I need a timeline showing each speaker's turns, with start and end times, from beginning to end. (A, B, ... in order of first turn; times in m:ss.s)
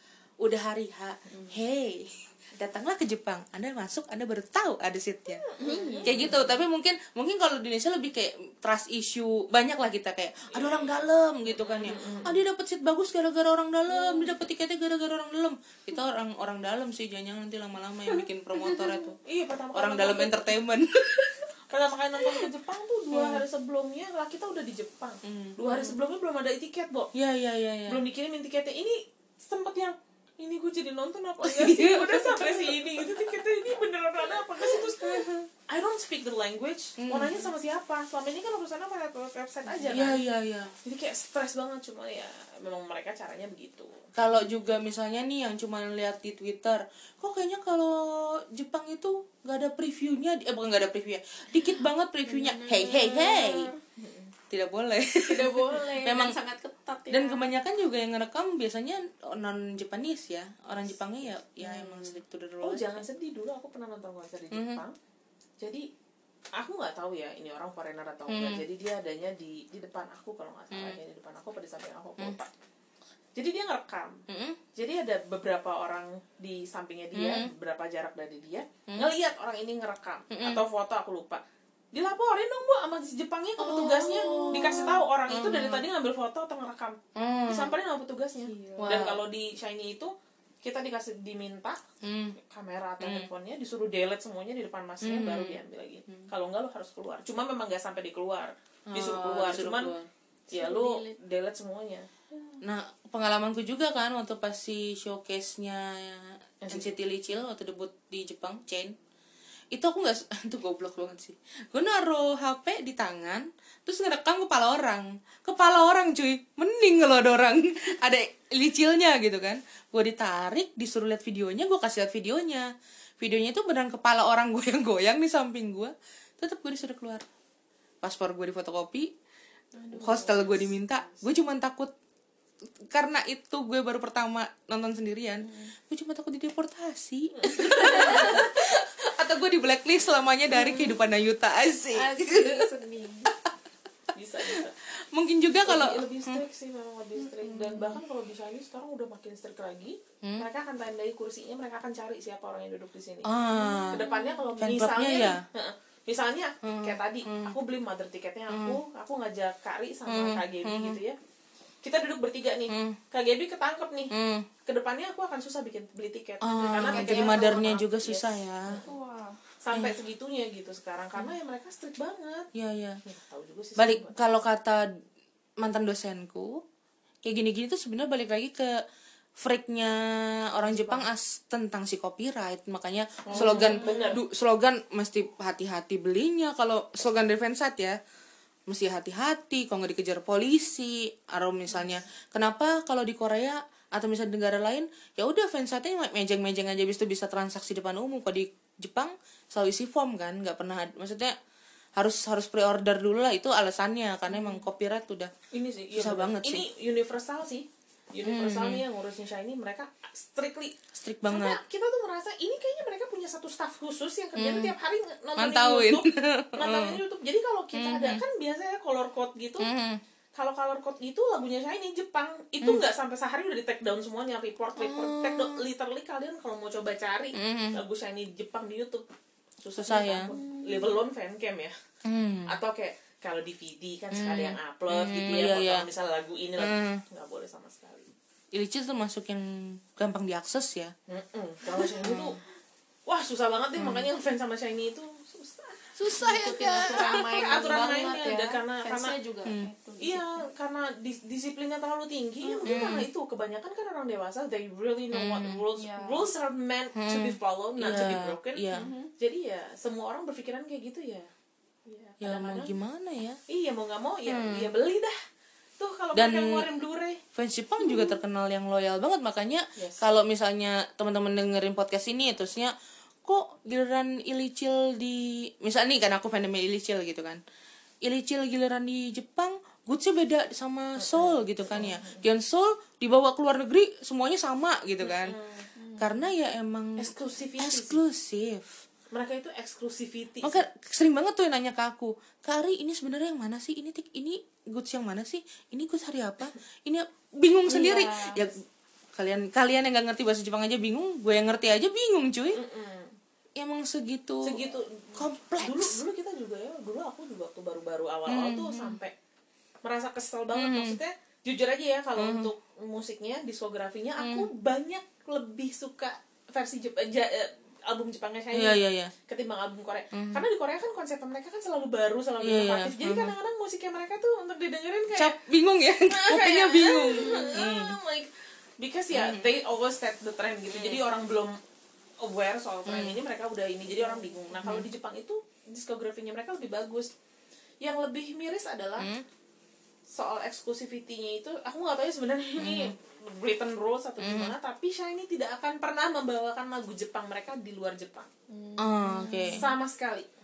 0:00.4-0:05.4 A
0:05.3-0:06.6 B
0:05.6-0:06.3 C
0:06.1-0:19.2 A
0:10.5-0:10.9 B
0:11.5-0:12.4 B
0:18.6-0:19.0 C
0:19.3-0:20.6 B
0:19.7-0:21.4 A
0:21.7-0:27.1 B
0:23.1-0:23.4 A
0:25.2-0:26.0 A
0:27.2-0:28.0 A
0:27.9-0:40.2 B
0:31.4-0:33.4 A
0:34.7-0:35.5 A
0:37.0-0:37.5 A
0:39.9-0:40.7 A
0:40.8-0:44.0 B
0:44.2-0:53.7 A
0:52.3-0:53.8 C
0:54.0-0:54.3 B
0:54.5-0:56.4 A
0:55.2-0:57.5 C
0:57.1-1:03.0 A
1:01.6-1:02.2 C
1:02.6-1:05.0 B
1:04.5-1:04.8 A
1:05.6-1:05.9 B
1:06.6-1:12.5 B
1:08.3-1:08.6 A
1:10.7-1:11.0 A
1:13.4-1:14.2 B
1:14.3-1:14.6 A
1:14.8-1:21.4 B
1:17.1-1:17.5 A
1:20.3-1:20.6 A
1:21.9-1:31.8 B
1:23.6-1:25.8 A
1:23.8-1:24.9 C
1:27.2-1:27.7 A
1:28.4-1:29.1 C
1:28.8-1:29.2 A
1:32.0-1:32.4 A
1:32.5-1:39.9 B
1:33.0-1:33.3 A
1:35.0-1:35.6 A
1:38.9-1:40.1 A
1:40.5-1:41.2 C
1:40.5-1:42.1 B
1:42.6-1:49.0 A
1:46.6-1:46.9 B
1:49.7-2:02.7 A
2:03.2-2:07.3 A
2:08.0-2:09.1 A
2:09.8-2:11.2 B
2:10.0-2:11.9 A
2:12.9-2:22.7 A
2:17.4-2:18.4 B
2:17.6-2:18.5 C
2:20.6-2:21.0 C
2:21.9-2:23.4 C
2:24.2-2:24.8 B
2:25.1-2:26.4 A
2:25.6-2:33.3 B
2:27.2-2:28.0 C
2:30.2-2:30.5 A
2:33.2-2:34.0 A
2:33.6-2:34.5 C
2:33.9-2:41.2 B
2:34.6-2:35.4 A
2:36.6-2:37.6 A
2:38.5-2:38.8 A
2:40.1-2:41.0 A
2:41.8-2:44.1 B
2:42.7-2:43.0 A
2:44.1-2:44.5 A
2:44.7-2:48.8 B
2:46.4-2:48.8 A
2:48.8-2:49.4 C
2:49.6-2:52.5 B
2:52.6-2:53.0 A
2:53.0-2:54.4 B
2:53.8-2:55.0 A
2:55.6-2:56.6 A
2:57.2-2:58.8 A
2:59.4-3:08.0 A
3:00.7-3:01.1 B
3:03.3-3:04.2 B
3:03.3-3:04.2 C
3:08.7-3:21.4 A
3:22.0-3:25.3 A
3:25.5-3:30.7 B
3:26.0-3:26.6 A
3:28.2-3:28.8 A
3:31.0-3:31.6 A
3:31.3-3:39.7 B
3:34.4-3:34.8 A
3:35.4-3:37.0 A
3:37.7-3:38.2 A
3:39.6-3:40.0 A
3:40.4-3:49.1 B
3:44.8-3:45.6 A
3:47.4-3:47.8 A
3:49.6-3:51.8 B
3:49.8-3:50.3 A
3:50.3-3:51.0 C
3:52.0-3:52.6 A
3:52.5-3:58.1 B
3:54.1-3:55.9 A
3:56.6-3:57.0 A
3:58.5-4:00.9 A
4:01.1-4:02.4 B
4:02.0-4:02.4 A
4:03.1-4:06.0 B
4:03.8-4:04.1 A
4:06.0-4:07.2 A
4:06.2-4:10.5 C
4:06.8-4:09.1 B
4:10.0-4:21.3 B
4:12.6-4:13.1 A
4:15.1-4:15.7 A
4:15.8-4:16.3 C
4:17.0-4:18.9 A
4:18.7-4:19.1 C
4:21.9-4:22.7 B
4:22.2-4:23.4 A
4:23.5-4:25.2 B
4:24.3-4:24.7 A
4:25.8-4:27.2 B
4:26.2-4:26.7 A
4:27.4-4:32.7 A
4:29.8-4:30.1 B
4:33.2-4:37.4 A
4:38.0-4:45.4 A
4:41.0-4:42.2 B
4:45.0-4:45.7 B
4:45.8-4:46.1 C
4:46.0-4:48.8 A
4:47.0-4:48.0 B
4:49.1-4:50.6 B
4:50.4-4:58.6 A
4:57.7-4:58.5 B
4:59.2-5:02.6 A
5:02.5-5:03.2 B
5:03.6-5:06.0 A
5:04.4-5:09.1 B
5:08.3-5:09.0 A
5:09.8-5:25.4 B
5:10.6-5:11.0 A
5:12.2-5:12.5 A
5:14.2-5:14.5 A
5:18.5-5:19.1 A
5:20.1-5:20.4 A
5:22.4-5:23.4 A
5:25.2-5:28.0 A
5:26.0-5:31.6 B
5:27.1-5:27.5 C
5:29.1-5:29.5 A
5:32.2-5:37.1 B
5:32.9-5:33.2 A
5:34.6-5:34.9 A
5:37.8-5:39.1 B
5:39.0-5:39.2 A
5:40.1-5:48.3 B
5:42.6-5:42.9 A
5:44.2-5:44.5 A
5:48.5-5:49.6 C
5:48.8-5:49.6 A
5:49.4-5:50.3 B